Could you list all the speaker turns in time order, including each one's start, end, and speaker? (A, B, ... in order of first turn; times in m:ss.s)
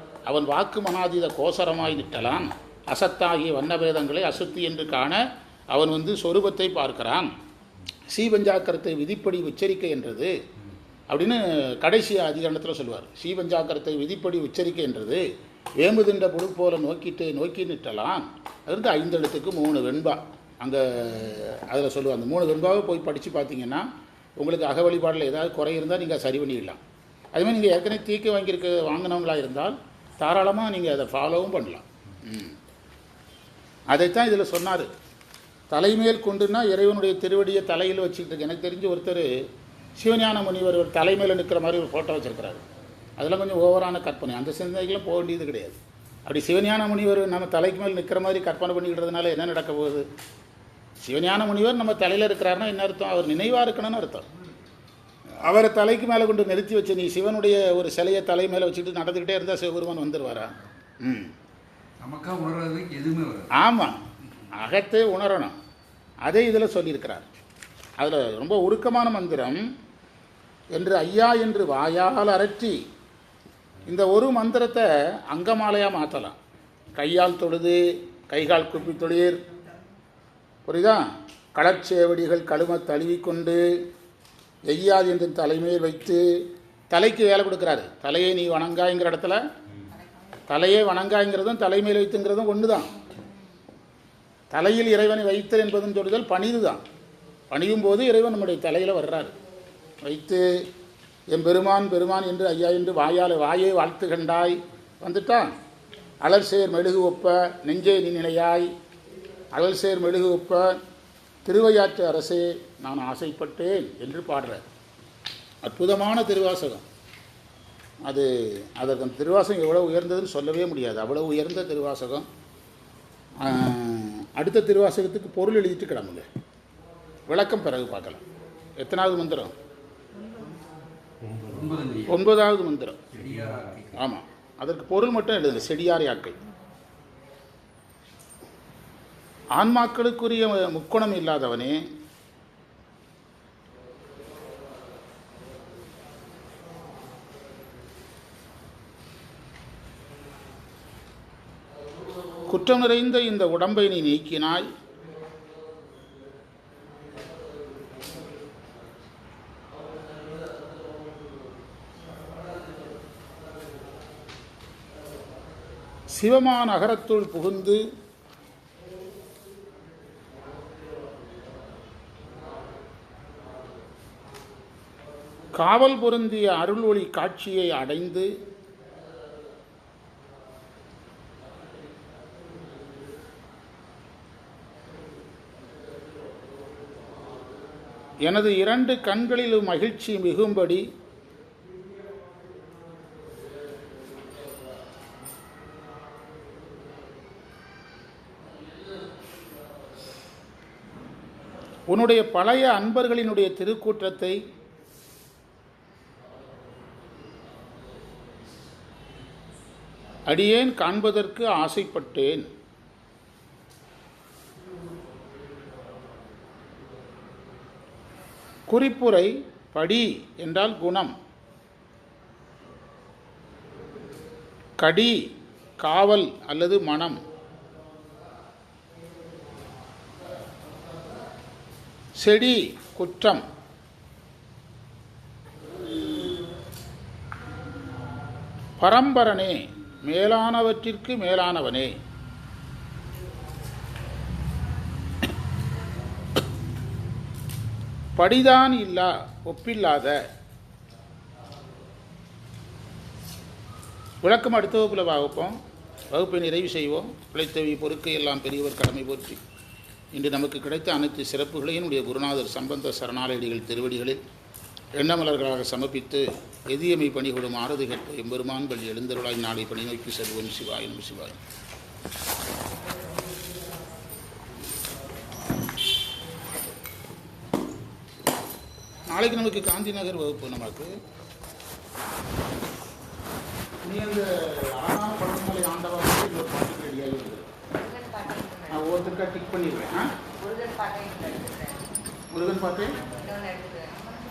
0:00.3-0:05.2 A
0:05.7-0:07.3 A
0:08.1-0:10.3 A
0:11.1-0:15.2 A
0:15.8-0:23.9 A
0:24.4-0:26.8 A
0:27.3-0:32.6 A
0:33.9-0:34.9 A
0:35.7-0:39.3 A
0:40.0-0:42.6 A
0:43.2-0:50.1 A
0:51.0-0:54.3 A
0:55.4-1:01.3 A
1:02.0-1:03.5 B
1:03.5-1:04.0 A
1:04.5-1:05.6 A
1:06.2-1:07.3 A
1:08.0-1:09.6 A
1:10.7-1:12.8 A
1:13.9-1:16.4 A
1:17.0-1:19.4 A
1:20.7-1:23.6 A
1:24.7-1:29.4 A
1:30.5-1:32.9 A
1:34.5-1:36.8 A
1:37.5-1:39.3 A
1:40.0-1:40.7 A
1:41.3-1:45.5 A
1:46.2-1:48.7 A
1:49.5-1:50.8 A
1:51.4-1:54.6 A
1:55.6-1:56.8 A
1:58.1-2:02.3 A
2:03.4-2:06.3 A
2:07.3-2:08.2 A
2:08.8-2:09.5 A
2:11.4-2:12.2 B
2:12.1-2:13.0 A
2:13.1-2:14.0 B
2:14.0-2:16.4 A
2:19.6-2:21.8 A
2:32.5-2:34.7 A
2:46.1-2:47.8 A
2:55.6-2:58.3 A
3:08.2-3:10.8 A
3:21.9-3:24.4 A
3:30.3-3:32.5 A
3:38.7-3:41.2 A
3:44.8-3:45.2 A
3:45.8-3:47.2 A
3:52.2-3:53.4 A
3:58.8-4:01.9 A
4:08.2-4:10.2 A
4:14.2-4:15.6 A
4:16.1-4:19.4 A
4:20.1-4:24.2 A
4:25.0-4:31.4 A
4:39.1-4:40.9 A
4:43.8-4:47.6 A
4:47.7-4:48.9 C
4:48.7-4:50.2 A
4:50.4-4:51.9 C
4:52.3-4:53.1 A
4:53.0-4:54.1 C